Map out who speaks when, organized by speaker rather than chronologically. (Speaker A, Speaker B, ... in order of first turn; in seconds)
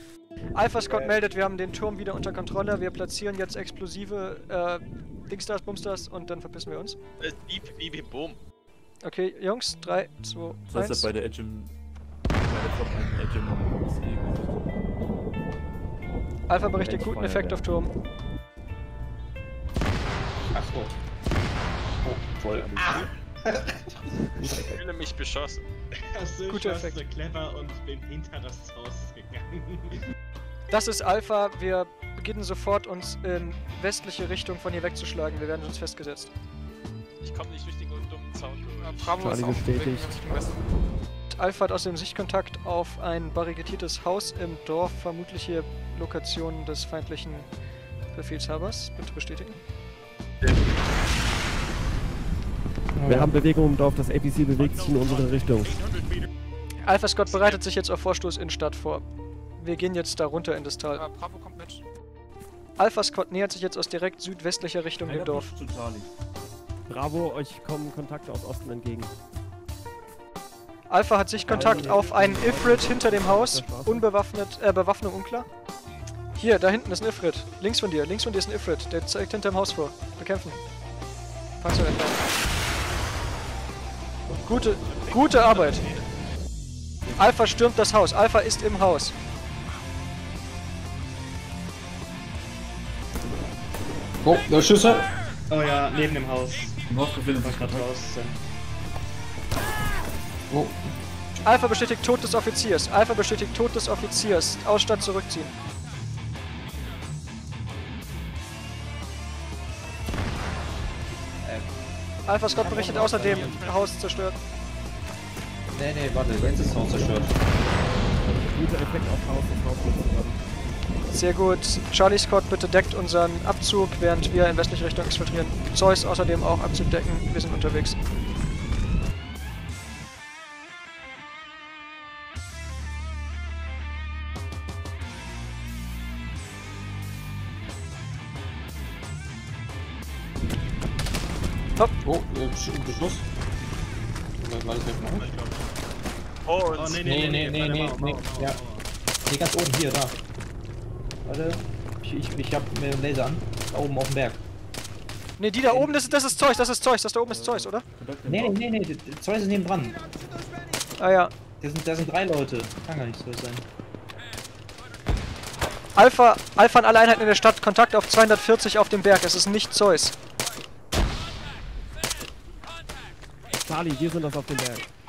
Speaker A: 0.5-7.0, 9.0-11.1, 16.5-17.9, 26.5-27.0, 30.7-36.3, 41.3-47.5, 48.1-49.6, 56.8-59.0, 59.6-61.1, 62.8-65.5, 70.9-75.5, 76.3-80.6, 81.6-82.2, 84.4-85.9, 87.2-89.2, 101.4-105.5, 112.3-114.4, 121.1-128.0, 155.4-157.8, 161.0-161.3, 166.0-170.2
Speaker B: 0.9-1.2, 20.5-21.0, 22.0-23.8, 53.0-53.3, 94.2-95.1, 100.5-100.9, 111.4-111.7, 112.5-113.6, 115.7-117.3, 142.0-143.3, 144.4-145.3, 147.0-148.6, 149.3-150.2, 151.2-154.4, 155.7-155.9, 158.3-160.0, 161.6-163.7
Speaker C: 7.2-8.4, 22.8-23.1, 24.6-25.6, 37.2-39.2, 54.6-55.4, 57.3-57.6, 112.7-114.0, 146.5-147.4
Speaker D: 10.7-11.8, 12.3-14.7, 65.0-66.1, 96.9-97.9, 157.5-158.6
Speaker E: 16.8-17.5, 24.4-24.8, 39.2-40.2, 53.1-55.8, 66.9-69.1, 71.4-74.1, 117.0-117.3, 118.3-120.4, 173.6-174.9
Speaker F: 26.1-30.0, 95.5-96.8, 97.3-98.4, 145.1-145.7, 146.7-148.9
Speaker G: 38.8-40.6, 60.9-61.8